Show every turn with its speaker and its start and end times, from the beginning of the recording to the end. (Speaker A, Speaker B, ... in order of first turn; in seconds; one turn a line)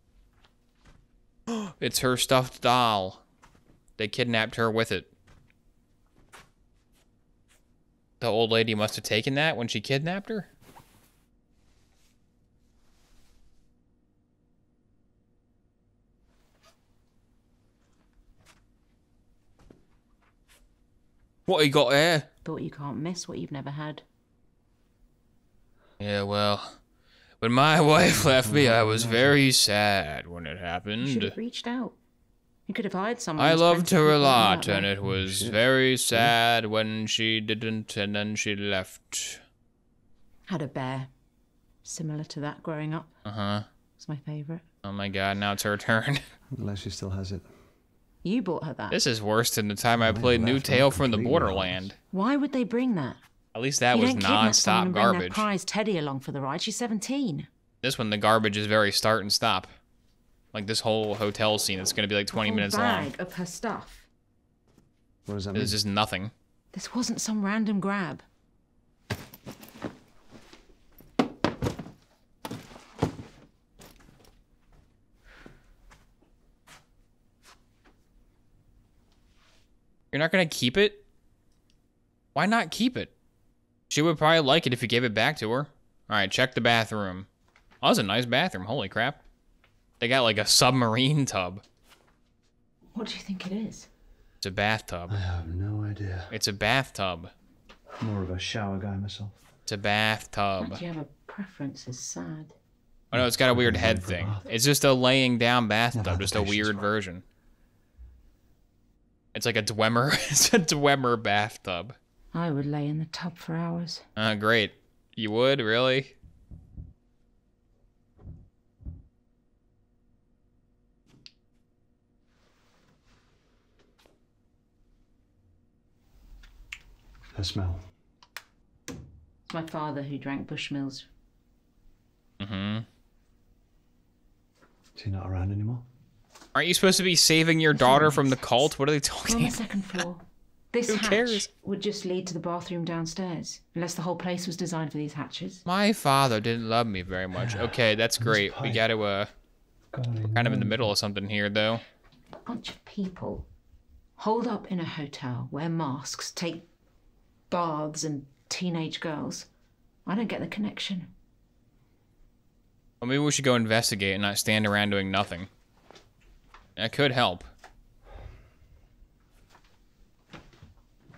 Speaker A: 1.5-3.2
Speaker A: 4.0-5.1
Speaker A: 8.2-10.5
Speaker A: 21.5-22.3
Speaker B: 22.4-24.0
Speaker A: 26.0-26.8
Speaker A: 27.4-31.4
Speaker C: 28.0-29.4
Speaker B: 31.0-32.0
Speaker B: 32.7-34.9
Speaker A: 33.4-39.4
Speaker C: 35.1-36.4
Speaker B: 40.5-41.1
Speaker B: 41.9-43.1
Speaker A: 43.2-43.7
Speaker B: 44.0-44.6
Speaker A: 44.8-46.2
Speaker C: 46.5-47.5
Speaker B: 48.2-49.0
Speaker A: 48.9-52.0
Speaker C: 50.0-51.9
Speaker B: 52.1-53.2
Speaker A: 53.5-55.5
Speaker B: 53.9-57.5
Speaker A: 57.8-59.7
Speaker A: 60.5-63.1
Speaker B: 62.3-64.1
Speaker C: 65.3-65.8
Speaker A: 65.5-66.3
Speaker B: 66.7-68.2
Speaker A: 80.1-81.0
Speaker A: 82.3-83.1
Speaker A: 83.9-87.3
Speaker A: 87.8-89.2
Speaker A: 90.0-91.6
Speaker B: 92.9-93.9
Speaker A: 94.4-95.2
Speaker C: 95.1-96.3
Speaker A: 96.3-97.3
Speaker C: 98.0-99.4
Speaker A: 99.7-100.8
Speaker B: 100.6-102.5
Speaker A: 103.1-107.2
Speaker C: 103.1-104.5
Speaker C: 105.9-106.9
Speaker A: 109.3-112.0
Speaker B: 112.3-114.0
Speaker A: 114.2-116.1
Speaker C: 127.3-127.9
Speaker B: 129.5-131.1
Speaker A: 132.4-132.9
Speaker C: 134.9-135.8
Speaker A: 136.6-139.6
Speaker B: 137.7-138.7
Speaker B: 139.2-145.6
Speaker A: 140.9-141.5
Speaker A: 145.7-149.3
Speaker C: 147.3-148.9
Speaker C: 149.9-150.9
Speaker A: 150.3-151.8
Speaker B: 152.4-153.5
Speaker B: 154.2-156.7
Speaker B: 157.5-159.5
Speaker B: 160.1-161.1
Speaker A: 163.0-165.5
Speaker A: 166.8-167.5